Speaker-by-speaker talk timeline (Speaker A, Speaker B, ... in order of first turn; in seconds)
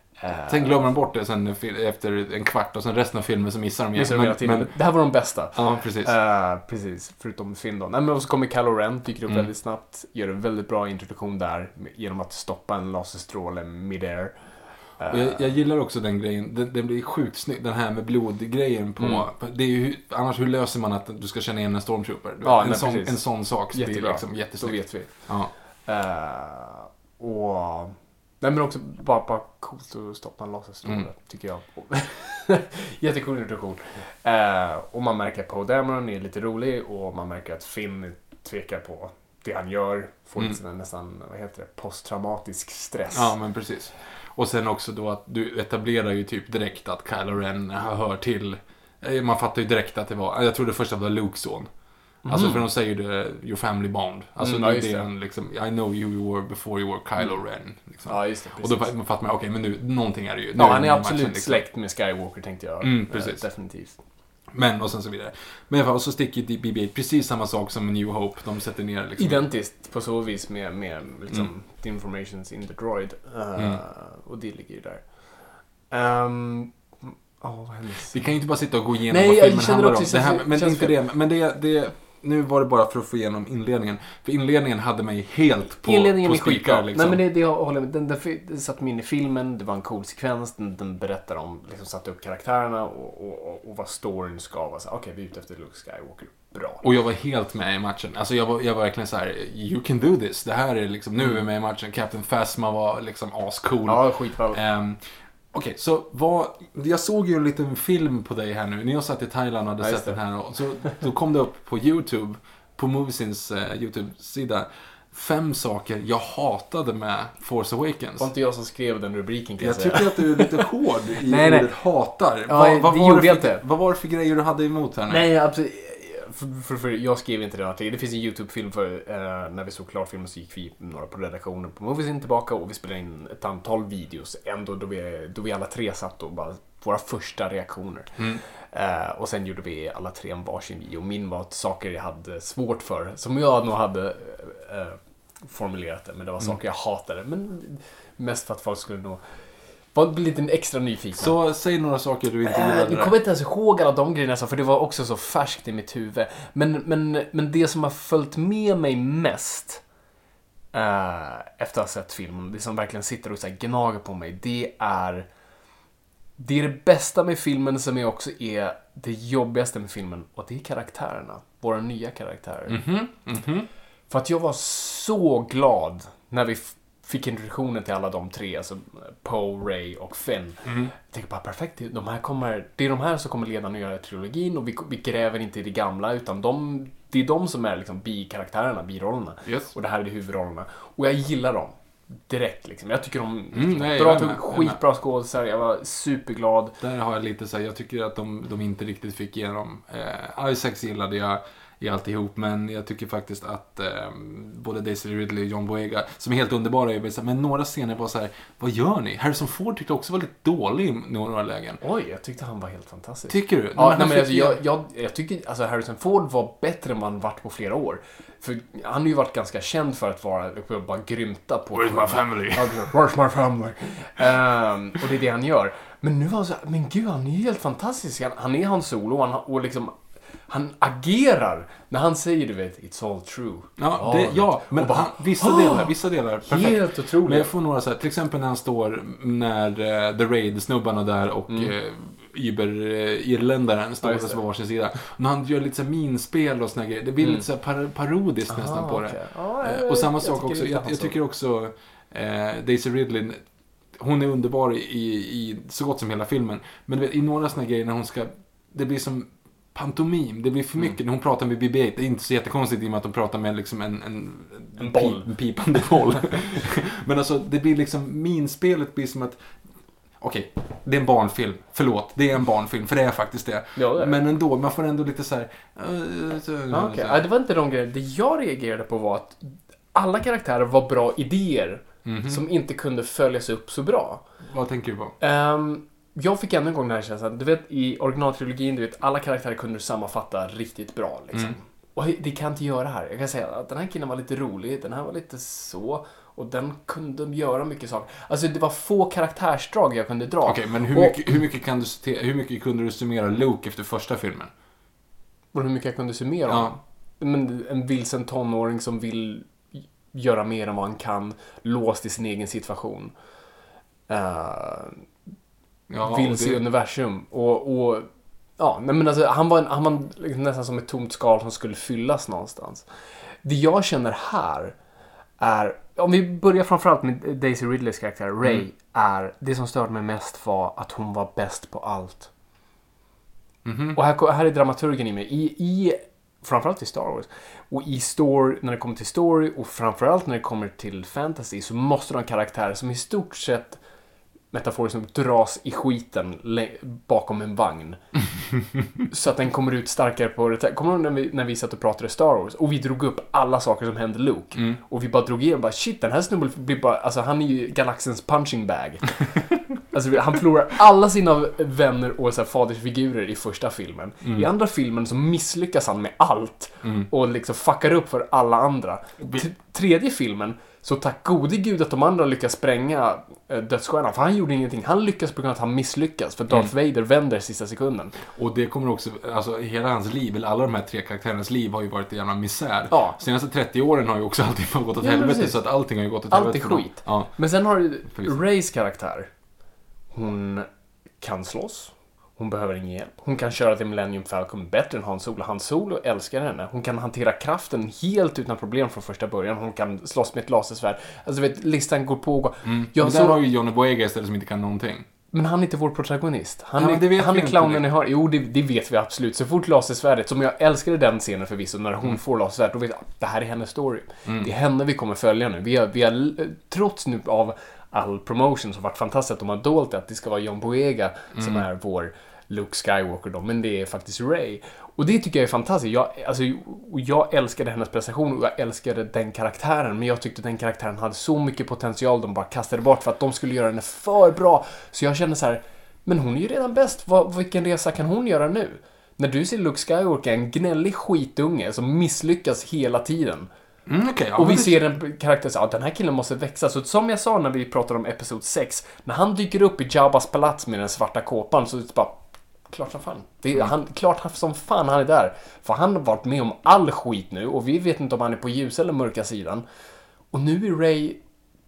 Speaker A: 0.2-0.9, 4.0-14.4, 15.0-15.5, 19.0-19.3, 22.4-43.3, 52.3-52.6, 54.4-55.1, 58.1-58.9, 60.6-64.0, 69.2-78.4, 79.1-81.0, 85.8-96.8, 103.9-104.6, 109.8-110.2, 118.2-120.7, 121.2-121.7, 122.5-123.6, 125.1-149.2, 149.9-151.3, 152.5-159.8, 160.7-165.3, 166.4-172.8, 174.1-191.8, 192.3-196.8, 211.8-235.9, 236.4-237.5, 244.0-244.4, 248.5-251.1, 264.8-265.3, 273.8-274.2, 276.7-284.2, 285.2-301.2, 305.5-313.1, 314.1-315.1, 316.0-322.9, 323.4-324.8, 325.4-332.3, 333.9-343.8, 344.5-348.0, 349.1-359.4, 359.9-378.2, 382.9-383.2, 385.0-385.6, 386.3-389.3, 390.1-390.7, 391.2-403.4, 405.3-443.5, 444.4-452.2, 452.7-459.6, 460.3-461.2
Speaker B: 0.5-6.1, 15.1-25.5, 43.1-51.7, 52.2-61.6, 62.8-63.4, 64.5-69.4, 78.1-87.2, 96.8-105.0, 105.5-118.3, 119.6-125.2, 151.2-153.1, 172.7-173.7, 180.7-180.9, 189.4-189.7, 193.5-194.8, 196.8-211.8, 213.3-214.6, 221.7-222.9, 233.8-269.4, 270.2-277.2, 282.1-282.4, 284.5-285.1, 300.4-304.5, 306.5-306.8, 315.9-316.6, 333.6-334.0, 354.5-354.8, 366.8-367.1, 378.3-387.5, 388.0-388.4, 402.6-405.1, 406.8-407.9, 421.4-421.6, 443.9-444.8